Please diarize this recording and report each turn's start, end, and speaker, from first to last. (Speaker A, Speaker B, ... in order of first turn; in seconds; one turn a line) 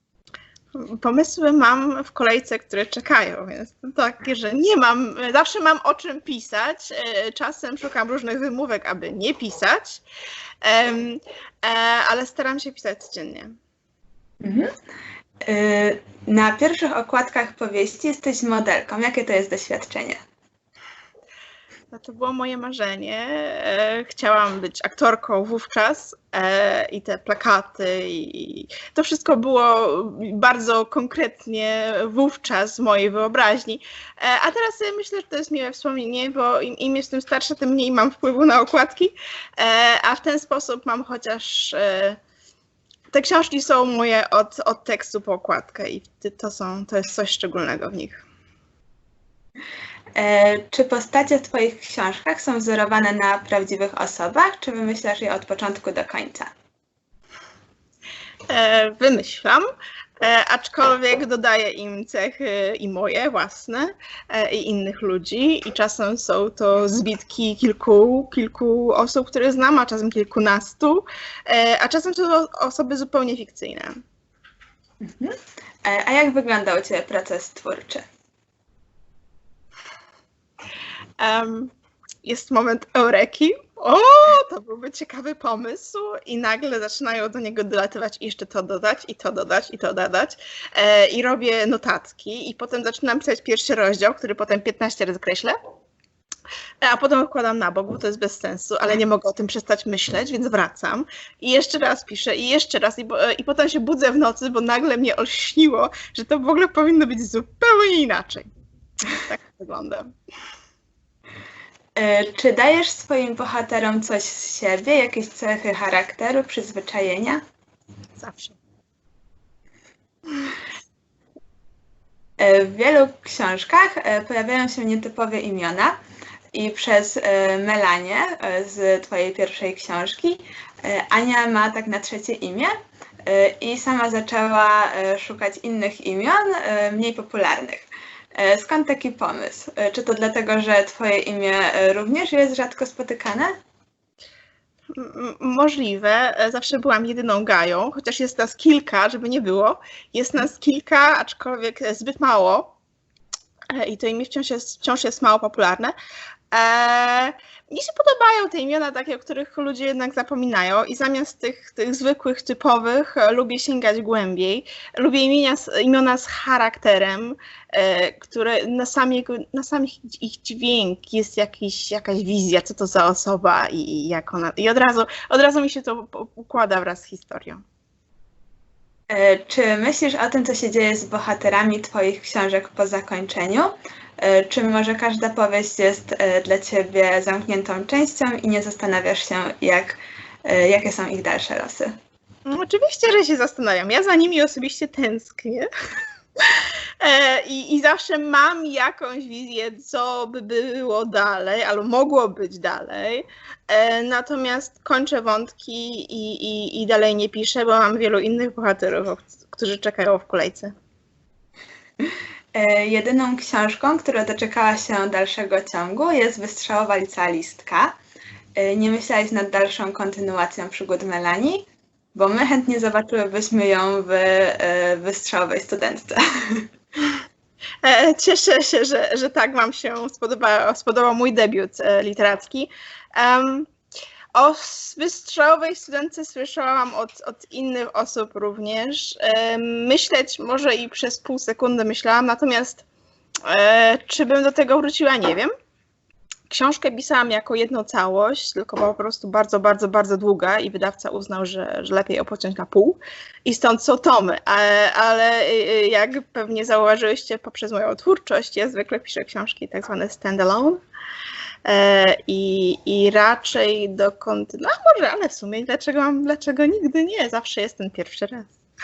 Speaker A: 0.7-10.0
Speaker A: 10.6-13.6
Speaker B: 14.4-14.7
Speaker B: 15.5-20.2
Speaker A: 21.9-42.2
Speaker A: 43.1-48.2
Speaker B: 50.2-56.5
Speaker A: 58.5-59.7
Speaker A: 60.2-74.0
Speaker B: 75.0-75.3
Speaker B: 75.8-78.0
Speaker A: 81.2-95.5
Speaker A: 96.8-108.5
Speaker A: 109.1-110.1
Speaker B: 112.0-117.4
Speaker A: 118.2-118.6
Speaker B: 122.4-126.0
Speaker B: 126.5-132.7
Speaker B: 133.3-143.5
Speaker A: 144.9-152.7
Speaker A: 153.7-155.9
Speaker A: 156.5-177.6
Speaker B: 179.1-191.9
Speaker A: 192.5-195.7
Speaker A: 196.5-210.7
Speaker B: 212.5-217.9
Speaker B: 218.6-226.7
Speaker A: 227.8-233.7
Speaker A: 234.3-242.8
Speaker A: 243.5-245.5
Speaker A: 246.5-260.8
Speaker A: 261.6-268.5